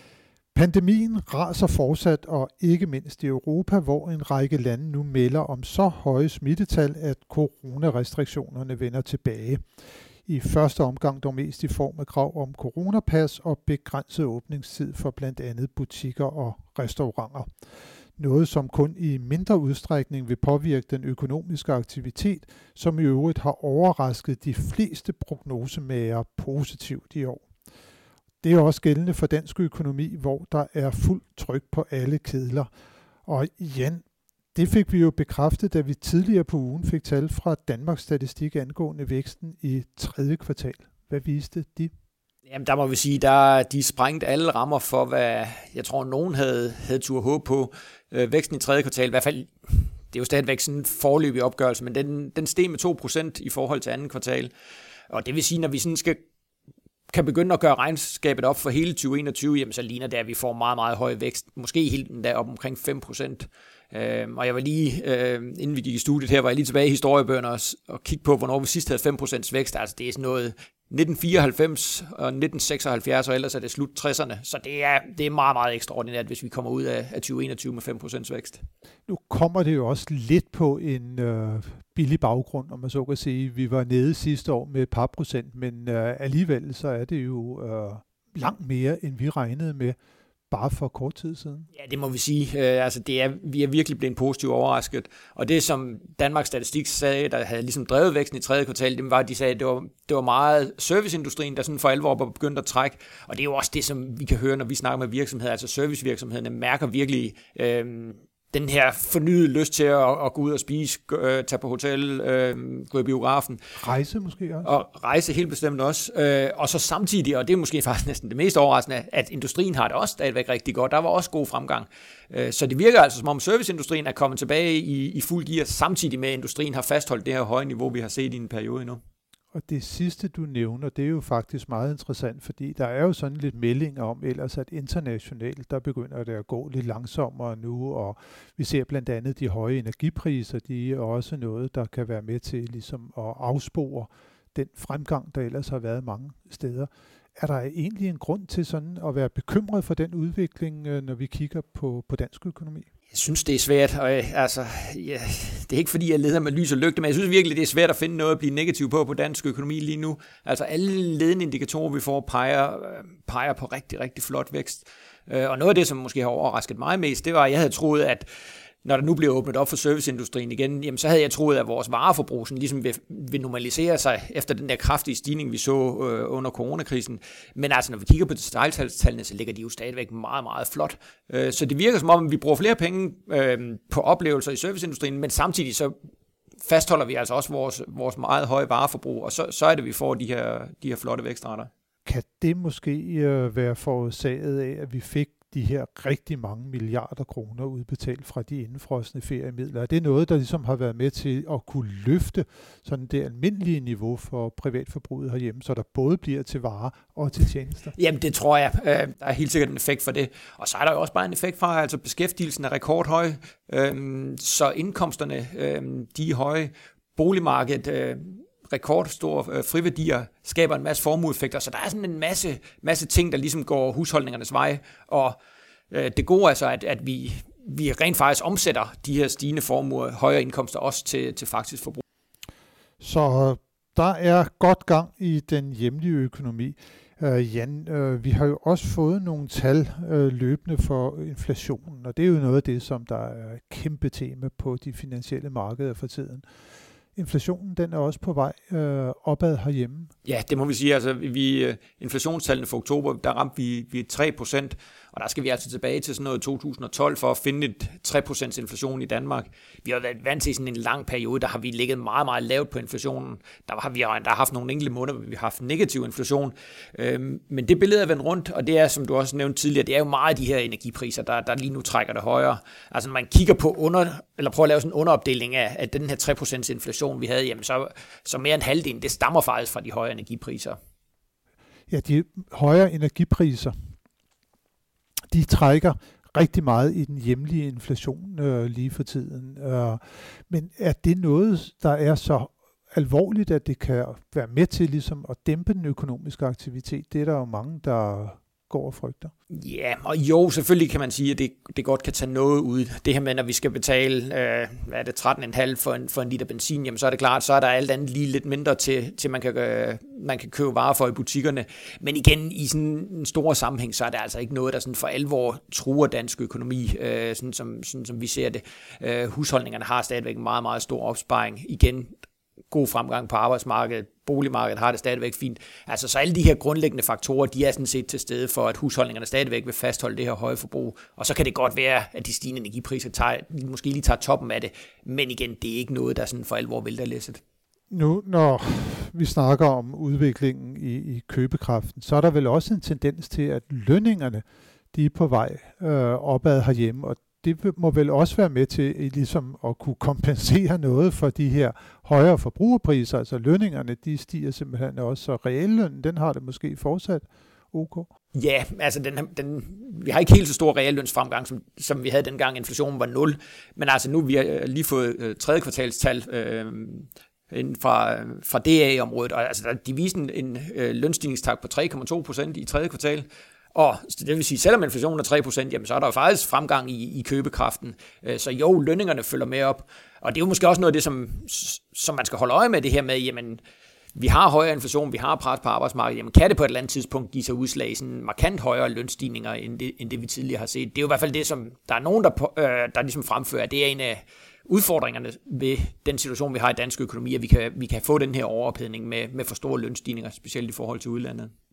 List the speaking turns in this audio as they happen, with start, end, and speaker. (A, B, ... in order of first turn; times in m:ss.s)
0:00.6-0:09.6 A
0:10.3-0:17.5 A
0:18.2-0:27.4 A
0:28.4-0:32.7 A
0:33.3-0:34.0 A
0:34.6-0:41.9 A
0:42.5-0:54.5 B
0:55.1-0:56.2 B
0:57.1-1:18.6 B
1:19.1-1:30.0 A
1:30.5-1:31.7 A
1:31.7-1:53.6 B
1:53.8-1:54.8 A
1:54.6-2:09.0 B
2:09.5-2:32.9 A
2:33.1-2:48.3 B
2:48.8-3:06.0 B
3:06.6-3:11.7 B
3:12.1-3:27.9 A
3:27.9-3:45.4 B
3:45.9-3:52.0 B
3:53.0-4:06.4 A
4:07.2-4:10.1 A
4:10.2-4:40.8 B
4:41.9-4:43.8 A
4:45.3-4:59.3 A
4:59.5-5:22.1 B
5:22.7-5:37.4 B
5:37.9-5:58.1 A
5:58.3-6:23.6 B
6:24.2-6:41.5 B